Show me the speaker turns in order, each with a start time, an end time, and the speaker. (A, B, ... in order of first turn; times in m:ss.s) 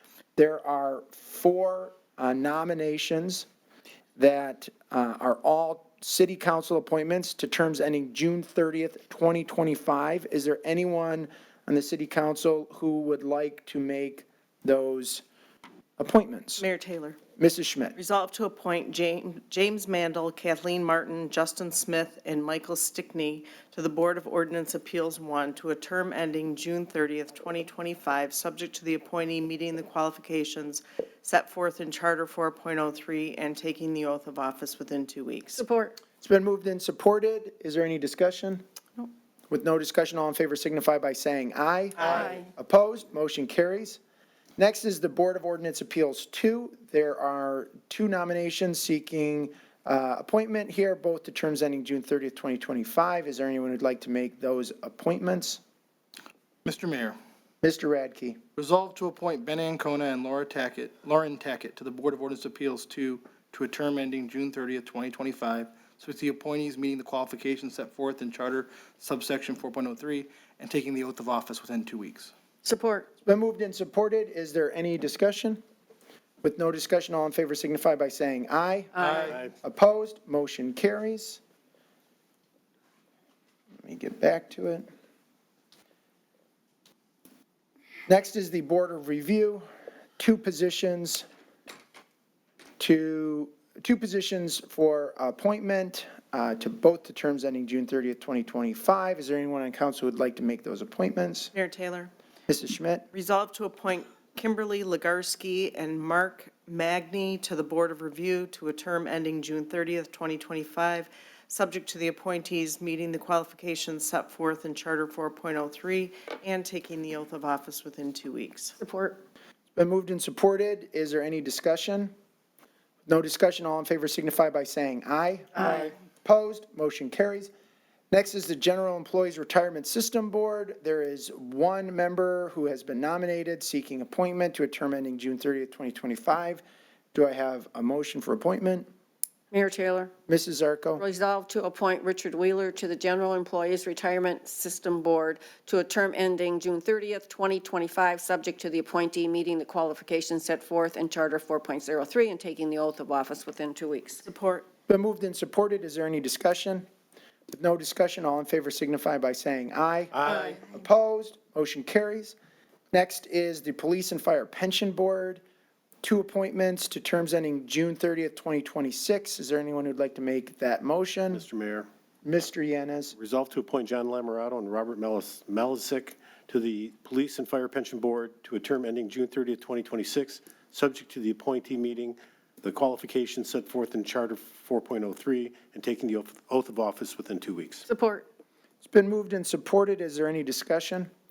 0:00.4-0:03.5 A
0:04.2-0:15.2 A
0:16.0-0:16.6 A
0:16.6-0:17.2 B
0:17.4-0:18.0 A
0:18.0-0:35.6 B
0:35.6-0:35.9 C
0:36.2-0:38.6 A
0:39.5-0:44.0 A
0:44.6-0:55.6 A
0:56.6-0:57.2 D
0:57.6-0:58.4 A
0:58.6-1:12.3 D
1:12.6-1:13.0 C
1:13.2-1:15.6 A
1:16.4-1:21.4 A
1:19.0-1:19.4 D
1:23.8-1:24.9 A
1:28.1-1:29.6 A
1:30.2-1:31.2 A
1:32.8-1:41.5 A
1:41.5-1:42.1 B
1:42.5-1:43.0 A
1:43.1-1:58.8 B
1:58.8-1:59.1 C
1:59.7-2:02.1 A
2:03.1-2:07.5 A
2:08.1-2:16.6 A
2:17.1-2:18.9 A
2:19.5-2:20.1 C
2:20.3-2:21.0 A
2:21.0-2:34.2 C
2:34.2-2:34.7 B
2:34.9-2:36.9 A
2:37.5-2:42.3 A
2:40.1-2:40.6 E
2:42.9-2:45.4 A
2:46.0-2:51.4 A
2:51.3-2:51.9 E
2:52.2-2:53.2 A
2:53.2-3:07.8 E
3:07.9-3:08.2 C
3:08.8-3:11.1 A